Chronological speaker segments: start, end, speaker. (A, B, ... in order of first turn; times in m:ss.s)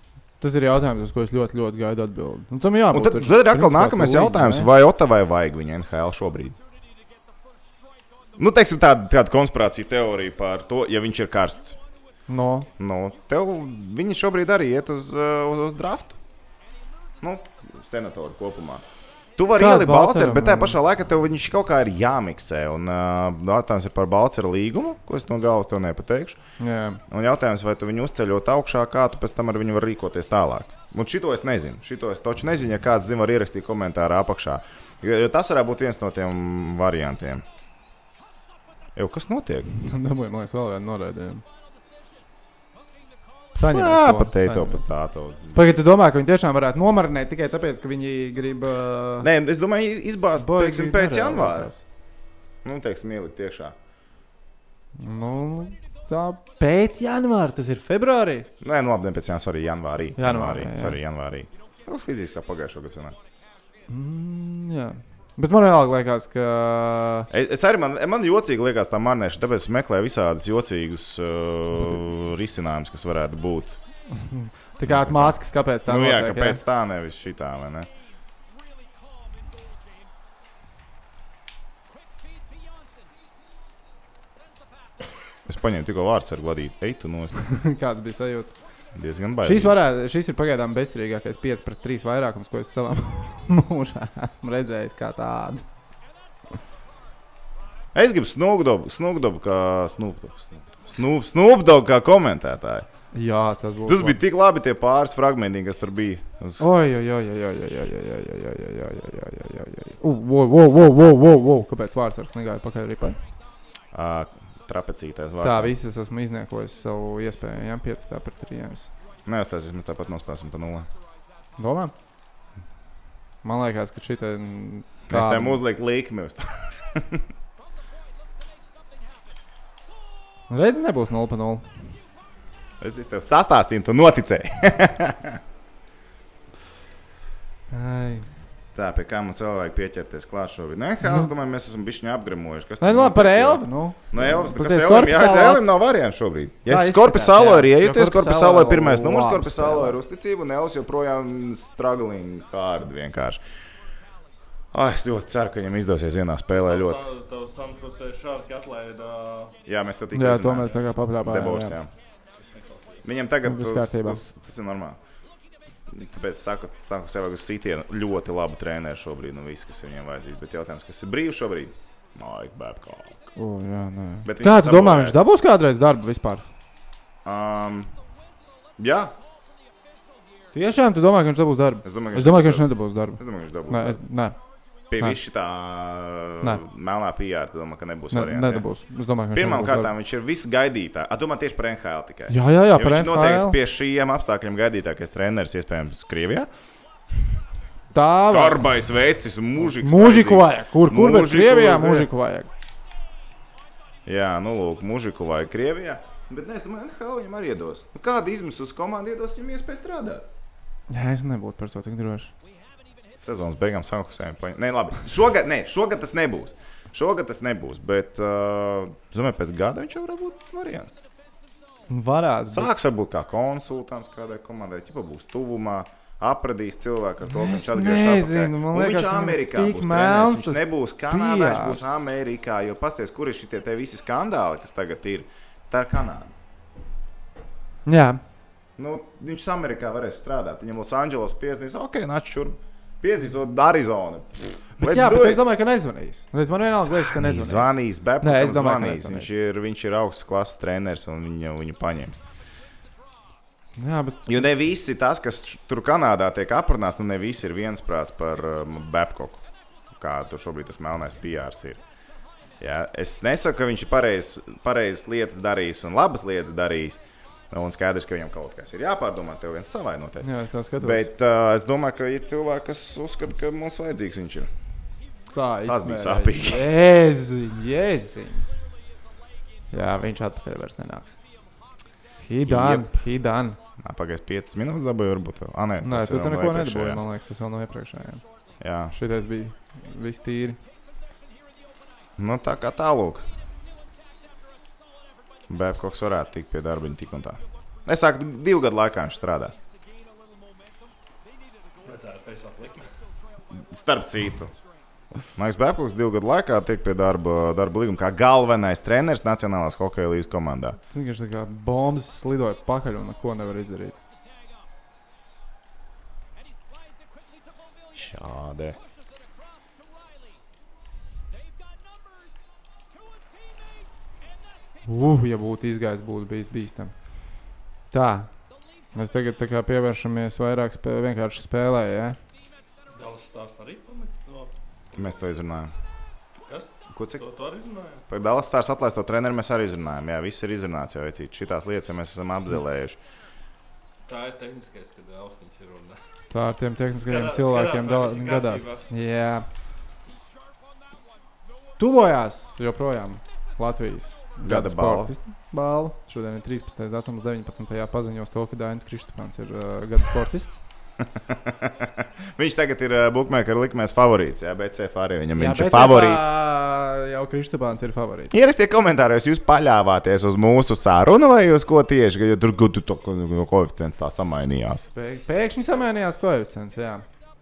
0:00.4-0:04.7 A
0:02.9-0:06.6 B
0:08.4-0:11.8 B
0:12.3-0:12.7 A
0:12.8-0:16.2 B
0:17.2-0:18.8 B
0:19.4-0:26.4 B
0:19.6-0:20.8 A
0:26.6-0:27.0 A
0:27.1-0:37.4 B
0:39.0-0:39.7 B
0:39.8-0:41.4 A
0:43.6-0:44.9 A
0:43.7-0:45.7 B
0:45.5-0:49.3 A
0:49.2-0:51.7 B
0:50.4-0:51.8 A
0:52.6-0:53.8 B
0:55.0-0:58.5 A
0:58.6-1:03.2 B
1:00.2-1:01.0 A
1:03.9-1:07.3 A
1:07.3-1:13.8 B
1:14.1-1:16.6 A
1:14.9-1:15.4 B
1:15.9-1:17.9 B
1:25.5-1:27.4 B
1:27.4-1:28.6 A
1:29.0-1:29.8 B
1:29.4-1:35.6 A
1:38.0-1:42.9 B
1:43.1-1:44.2 A
1:43.9-1:46.7 B
1:46.6-1:53.2 A
1:53.9-1:55.7 B
1:55.4-1:58.9 A
1:59.3-2:00.9 B
2:01.6-2:01.9 A
2:03.4-2:05.6 A
2:05.1-2:07.2 B
2:10.5-2:11.6 A
2:12.8-2:15.4 B
2:17.7-2:18.3 A
2:18.8-2:33.4 B
2:22.8-2:25.6 A
2:26.7-2:30.0 A
2:34.7-2:37.0 B
2:36.5-2:39.6 C
2:39.7-2:41.9 B
2:40.1-2:41.8 A
2:42.6-2:43.0 C
2:43.0-2:45.0 B
2:43.4-2:44.2 A
2:45.9-2:53.2 B
2:53.4-2:56.4 A
2:54.2-2:55.2 B
2:57.2-2:57.9 B
2:58.8-2:59.2 B
3:00.5-3:04.4 A
3:01.8-3:02.7 B
3:03.2-3:04.0 B
3:04.9-3:08.6 B
3:08.1-3:09.9 A
3:09.3-3:16.5 B
3:12.3-3:13.6 A
3:17.9-3:18.7 A
3:18.3-3:22.1 B
3:19.6-3:22.5 A
3:24.1-3:30.3 B
3:30.9-3:32.3 A
3:33.2-3:41.0 B
3:41.9-3:42.7 A
3:42.5-3:56.3 B
3:47.3-3:51.9 A
3:57.9-3:58.2 A
3:58.8-4:05.4 B
4:04.8-4:09.3 A
4:06.9-4:12.2 B
4:13.8-4:14.5 A
4:14.3-4:19.4 B
4:20.0-4:21.8 B
4:22.6-4:30.3 B
4:30.2-4:31.1 A
4:30.8-4:34.5 B
4:35.3-4:38.5 A
4:35.7-4:36.7 B
4:39.7-4:41.2 A
4:42.2-4:43.6 A
4:42.5-4:42.9 B
4:43.8-4:47.0 B
4:45.8-4:48.2 A
4:48.6-4:49.0 B
4:48.9-4:50.6 A
4:52.2-4:53.2 B
4:55.5-4:59.6 B
5:01.8-5:02.9 C
5:03.5-5:04.5 B
5:05.4-5:10.8 B
5:10.9-5:14.0 A
5:17.9-5:18.8 B
5:24.9-5:26.9 A
5:27.9-5:28.3 A
5:29.0-5:32.2 A
5:32.9-5:35.1 C
5:35.0-5:35.7 B
5:36.5-5:38.0 C
5:36.9-5:37.2 B
5:38.1-5:43.0 B
5:44.1-5:46.0 C
5:46.3-5:49.5 A
5:47.0-5:48.8 C
5:51.8-6:00.6 A
5:54.4-5:55.1 B
6:01.2-6:06.3 B
6:05.4-6:08.3 A
6:08.3-6:14.9 B
6:14.9-6:17.0 A